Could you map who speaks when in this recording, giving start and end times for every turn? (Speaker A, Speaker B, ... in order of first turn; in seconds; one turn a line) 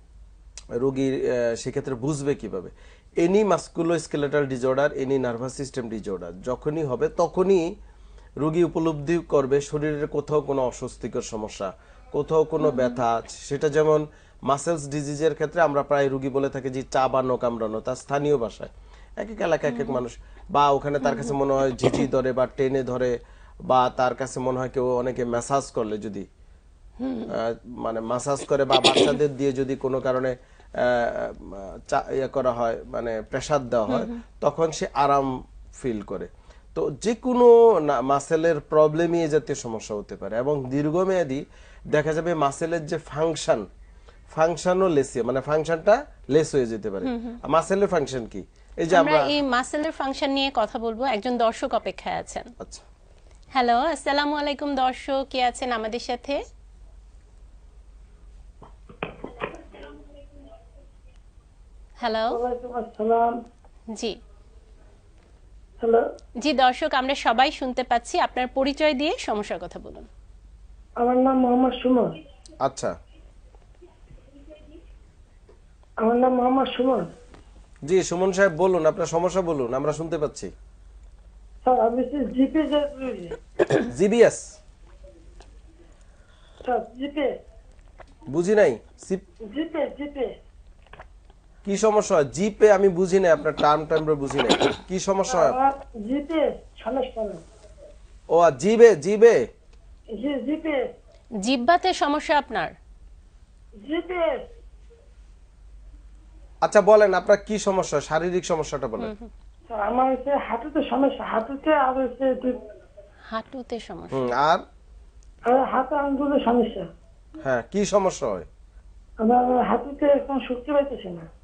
Speaker A: 0.8-7.7
Speaker A: 8.4-23.1
Speaker B: 12.6-13.0
Speaker A: 23.7-26.2
Speaker B: 27.0-27.3
Speaker A: 27.3-43.6
Speaker B: 33.9-34.1
Speaker A: 44.3-49.3
Speaker B: 47.0-47.4
Speaker B: 48.9-52.5
Speaker B: 53.5-56.4
Speaker B: 62.0-62.4
Speaker C: 62.3-63.3
Speaker B: 66.4-70.1
Speaker C: 71.0-72.1
Speaker A: 72.6-72.9
Speaker C: 76.0-77.0
Speaker A: 77.8-80.5
Speaker C: 81.6-83.4
Speaker A: 83.8-84.5
Speaker C: 86.6-87.3
Speaker A: 88.3-89.2
Speaker C: 89.5-90.3
Speaker A: 91.6-95.5
Speaker C: 95.3-97.4
Speaker A: 98.3-99.4
Speaker C: 100.2-100.9
Speaker B: 101.4-102.7
Speaker C: 103.8-104.4
Speaker A: 106.6-109.1
Speaker B: 109.0-109.3
Speaker C: 109.7-112.6
Speaker B: 113.3-114.3
Speaker A: 114.1-114.6
Speaker C: 115.5-116.9
Speaker A: 117.4-118.5
Speaker C: 119.2-121.3